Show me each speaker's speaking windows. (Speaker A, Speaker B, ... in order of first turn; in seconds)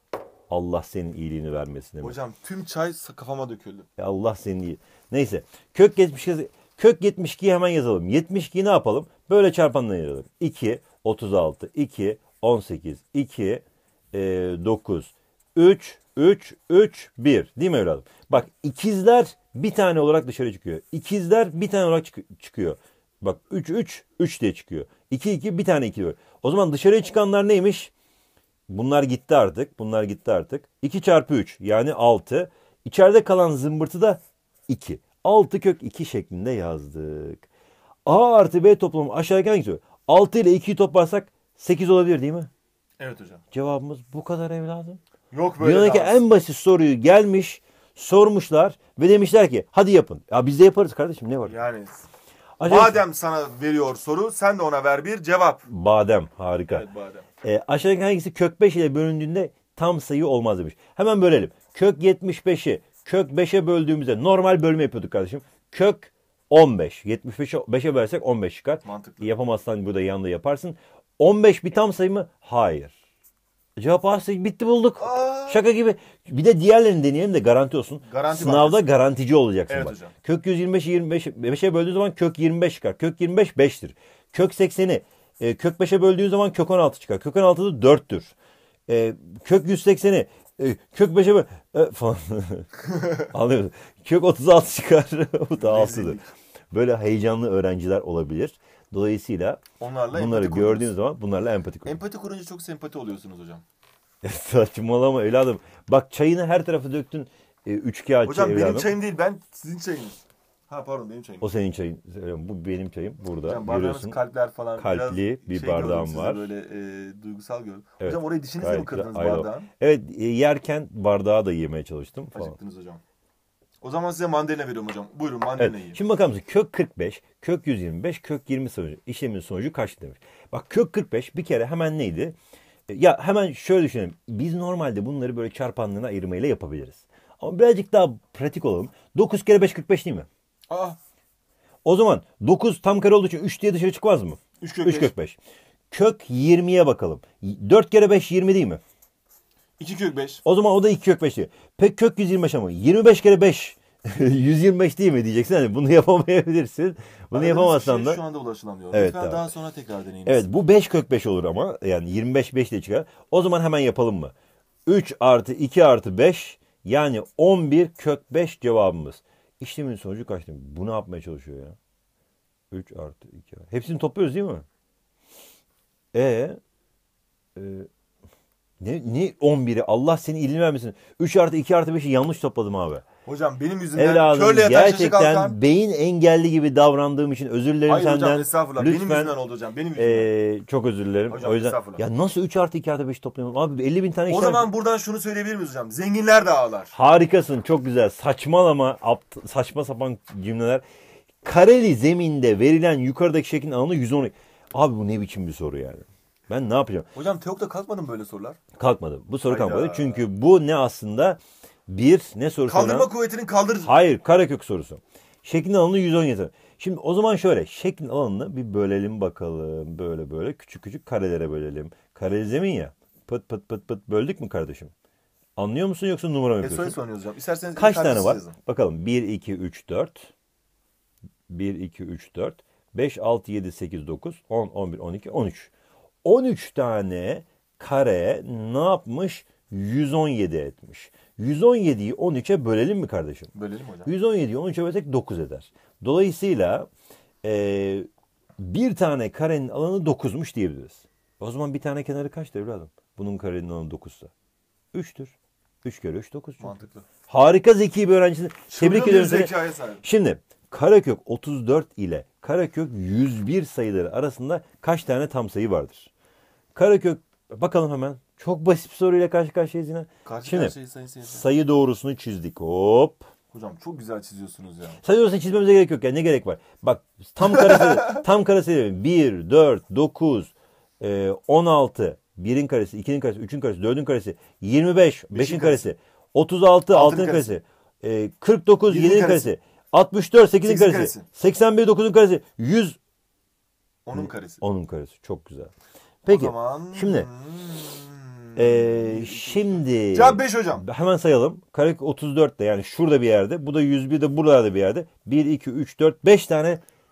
Speaker A: 0.5-2.2, 4.0-27.9, 28.7-37.5, 38.0-42.5, 43.5-45.0, 45.6-51.5, 52.6-53.0, 55.7-56.9, 57.4-72.9, 73.8-88.3, 88.9-96.2, 96.7-102.0, 104.2-108.9, 111.4-114.2, 114.8-116.5, 118.0-122.5, 125.6-132.3, 132.9-140.3, 141.8-145.4, 145.9-148.8, 150.4-158.2, 158.9-159.5, 160.2-164.3, 164.8-171.8, 172.7-174.6, 176.1-176.6, 177.6-177.9, 178.8-183.1, 183.9-189.3, 190.0-194.7, 196.9-200.8, 201.4-207.1, 208.7-213.1, 213.8-224.9, 225.6-227.0, 227.8-230.3, 231.5-235.7, 236.2-243.5, 244.0-246.9, 247.4-248.1, 248.6-254.3, 254.9-266.1, 266.7-270.7, 271.2-273.3, 275.0-293.0, 294.1-295.7, 296.2-297.3, 298.6-306.8
Speaker B: 2.0-3.9, 43.0-43.4, 45.3-46.2, 51.5-52.0, 52.6-55.6, 56.7-57.2, 68.8-69.3, 75.0-75.6, 78.0-78.9, 79.7-80.1, 95.5-96.3, 99.8-100.9, 101.8-103.6, 108.2-111.5, 113.4-119.7, 122.3-123.0, 123.8-126.0, 140.7-141.0, 144.6-145.1, 149.8-150.4, 157.3-160.4, 183.2-185.6, 187.9-190.3, 191.3-192.0, 194.3-196.9, 207.1-208.6, 209.4-210.2, 212.7-213.9, 226.6-228.5, 243.5-244.1, 256.6-257.1, 258.7-260.0, 270.2-271.4, 273.5-275.0, 277.7-277.9, 285.3-285.9, 286.9-287.5, 288.9-289.5, 290.6-291.2, 294.1-294.6, 296.3-300.9